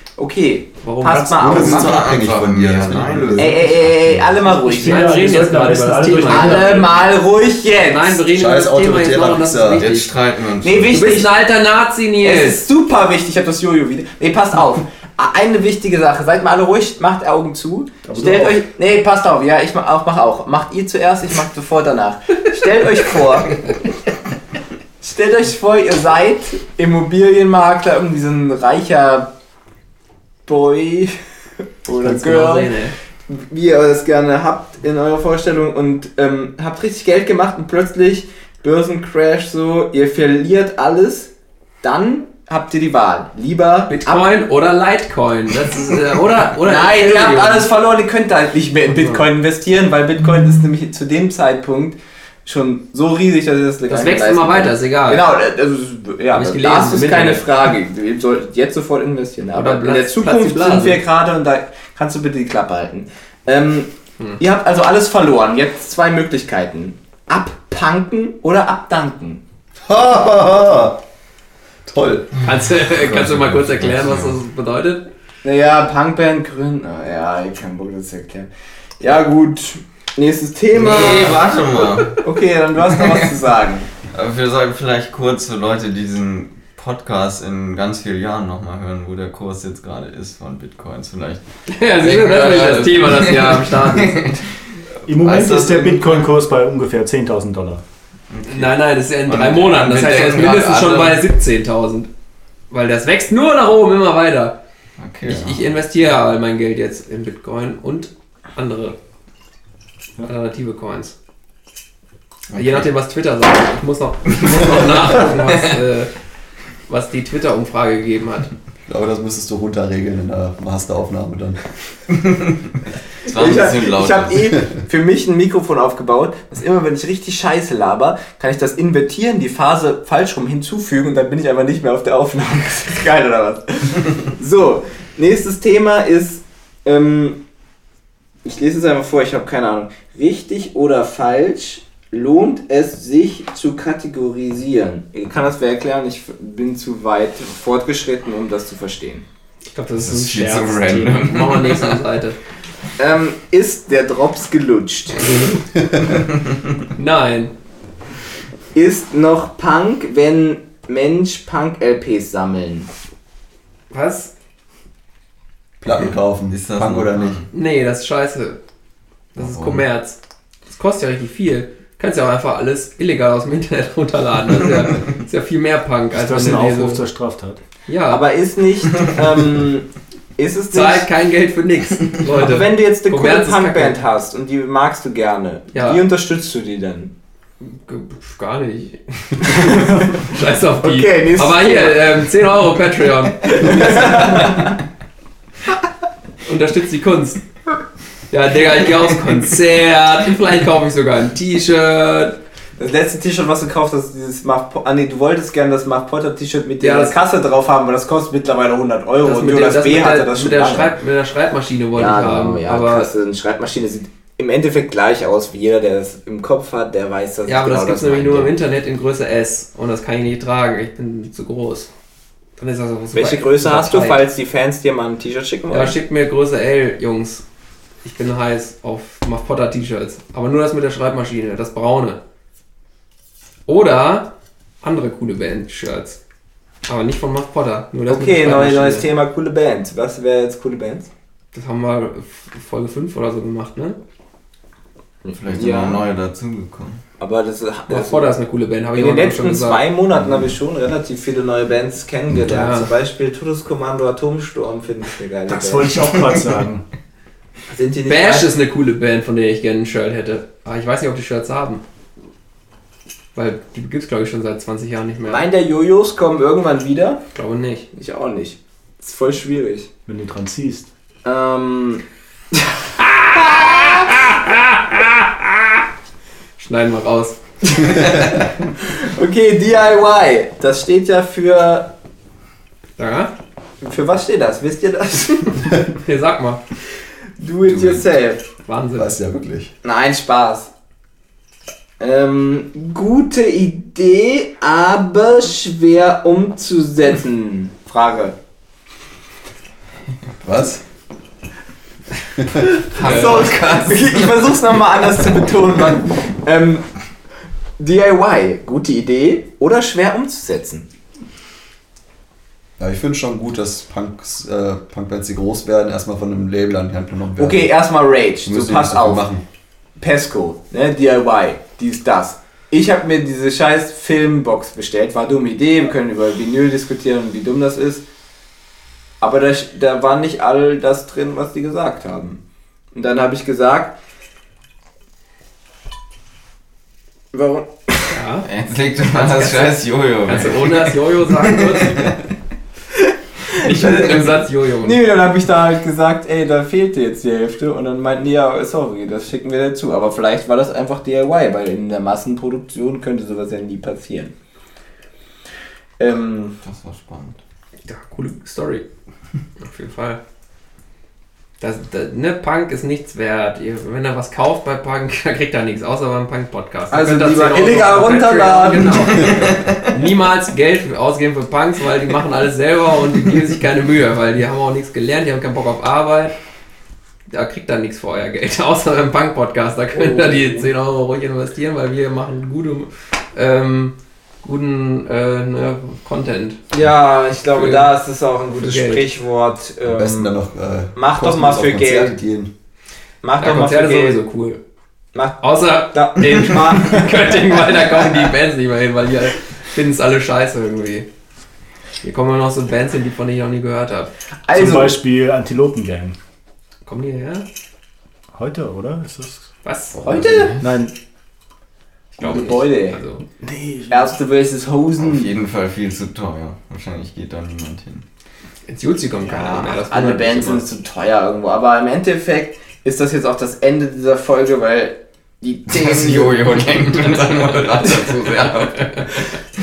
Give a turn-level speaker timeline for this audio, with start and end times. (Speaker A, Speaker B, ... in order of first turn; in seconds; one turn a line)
Speaker A: 0.2-2.0
Speaker B: 0.8-1.9
Speaker C: 1.4-4.2
Speaker D: 1.6-4.2
Speaker A: 3.4-5.2
Speaker E: 4.5-7.0
Speaker B: 4.8-7.0
Speaker A: 6.2-8.2
Speaker B: 7.8-10.1
Speaker C: 8.3-9.9
Speaker D: 9.7-11.0
Speaker A: 10.6-11.4
Speaker B: 10.9-12.6
Speaker A: 12.2-23.8
Speaker E: 18.0-18.6
Speaker A: 25.0-29.3
Speaker A: 30.4-31.1
Speaker A: 31.8-32.7
Speaker B: 32.0-32.9
Speaker A: 33.3-41.3
Speaker A: 41.8-44.3
Speaker B: 43.9-47.7
Speaker A: 46.6-69.4
Speaker B: 48.9-49.2
Speaker B: 53.9-55.3
Speaker B: 56.3-57.5
Speaker B: 59.5-61.0
Speaker C: 69.8-71.0
Speaker C: 71.8-72.3
Speaker D: 72.4-74.4
Speaker B: 72.4-75.1
Speaker A: 75.4-78.5
Speaker A: 79.0-83.9
Speaker D: 80.7-82.2
Speaker D: 82.8-83.1
Speaker D: 84.1-94.4
Speaker B: 91.7-94.4
Speaker D: 95.0-96.3
Speaker E: 95.0-97.8
Speaker D: 98.3-101.3
Speaker B: 98.5-102.1
Speaker B: 102.7-104.6
Speaker D: 105.0-105.7
Speaker B: 105.2-109.0
Speaker B: 110.2-111.1
Speaker D: 112.5-112.9
Speaker B: 112.5-116.1
Speaker B: 116.9-118.5
Speaker C: 118.8-121.6
Speaker D: 122.2-122.5
Speaker D: 123.2-124.6
Speaker A: 123.2-137.4
Speaker A: 138.4-149.2
Speaker B: 149.7-152.4
Speaker D: 150.0-152.0
Speaker A: 153.0-155.3
Speaker B: 155.2-155.6
Speaker B: 156.9-157.5
Speaker A: 158.7-162.9
Speaker B: 163.9-164.3
Speaker C: 165.8-167.4
Speaker D: 166.5-167.5
Speaker B: 167.5-168.6
Speaker D: 169.3-169.8
Speaker B: 169.3-177.1
Speaker E: 176.1-177.6
Speaker B: 177.8-178.2
Speaker A: 178.1-181.1
Speaker B: 180.7-184.0
Speaker A: 182.3-187.1
Speaker B: 185.7-186.0
Speaker B: 187.6-194.6
Speaker A: 189.5-190.2
Speaker A: 190.8-192.2
Speaker A: 193.4-194.7
Speaker B: 196.4-197.4
Speaker B: 198.3-202.4
Speaker A: 202.8-210.9
Speaker B: 206.8-207.2
Speaker B: 209.2-213.1
Speaker A: 211.9-218.5
Speaker B: 217.4-221.9
Speaker B: 222.6-224.2
Speaker A: 223.1-225.9
Speaker B: 225.7-227.4
Speaker B: 228.0-232.2
Speaker B: 233.7-236.2
Speaker B: 236.9-239.1
Speaker A: 238.1-241.1
Speaker B: 241.5-244.0
Speaker A: 245.2-246.0
Speaker D: 245.3-247.0
Speaker A: 247.2-248.2
Speaker B: 247.9-249.8
Speaker A: 248.9-256.1
Speaker B: 252.5-252.9
Speaker E: 255.5-256.8
Speaker A: 257.7-258.5
Speaker B: 258.1-261.8
Speaker B: 263.3-265.4
Speaker A: 265.3-267.2
Speaker B: 267.3-267.9
Speaker A: 267.9-269.9
Speaker E: 270.1-270.9
Speaker A: 271.2-272.0
Speaker A: 272.5-274.4
Speaker B: 274.4-275.1
Speaker B: 276.6-277.4
Speaker A: 277.6-281.9
Speaker B: 283.0-283.3
Speaker A: 283.8-285.9
Speaker B: 285.8-286.6
Speaker A: 287.4-288.4
Speaker C: 287.8-288.0
Speaker B: 288.6-289.4
Speaker C: 288.9-289.7
Speaker A: 289.8-290.7
Speaker A: 292.0-298.4
Speaker C: 300.4-300.8
Speaker A: 302.7-306.9
Speaker D: 302.9-304.6
Speaker B: 302.9-303.5
Speaker A: 307.8-310.9
Speaker C: 312.8-317.8
Speaker A: 317.4-319.2
Speaker C: 318.4-319.4
Speaker A: 320.0-328.0
Speaker A: 329.2-332.4
Speaker A: 332.9-333.9
Speaker A: 337.3-338.2
Speaker B: 338.1-338.5
Speaker D: 338.4-342.2
Speaker B: 339.0-342.2
Speaker A: 342.9-354.3
Speaker B: 343.5-345.0
Speaker A: 356.0-356.6
Speaker D: 356.6-357.4
Speaker B: 357.9-358.8
Speaker B: 359.6-360.2
Speaker B: 361.6-376.3
Speaker A: 366.9-369.3
Speaker D: 369.0-369.9
Speaker B: 377.3-386.6
Speaker A: 379.9-380.7
Speaker A: 386.7-390.3
Speaker B: 387.5-387.9
Speaker B: 388.5-389.1
Speaker C: 389.8-392.5
Speaker A: 390.9-392.1
Speaker A: 393.2-394.2
Speaker B: 393.4-394.6
Speaker A: 395.1-397.4
Speaker B: 395.4-401.1
Speaker B: 402.0-404.1
Speaker A: 404.5-405.0
Speaker E: 404.5-406.1
Speaker B: 406.8-407.5
Speaker E: 408.3-409.5
Speaker B: 409.6-410.2
Speaker D: 409.9-410.6
Speaker A: 410.0-410.6
Speaker E: 410.6-410.9
Speaker A: 412.2-413.0
Speaker B: 412.2-413.2
Speaker E: 413.3-414.1
Speaker A: 413.9-415.3
Speaker D: 415.0-418.0
Speaker B: 418.6-420.6
Speaker A: 419.2-426.6
Speaker D: 425.7-428.9
Speaker B: 426.9-429.2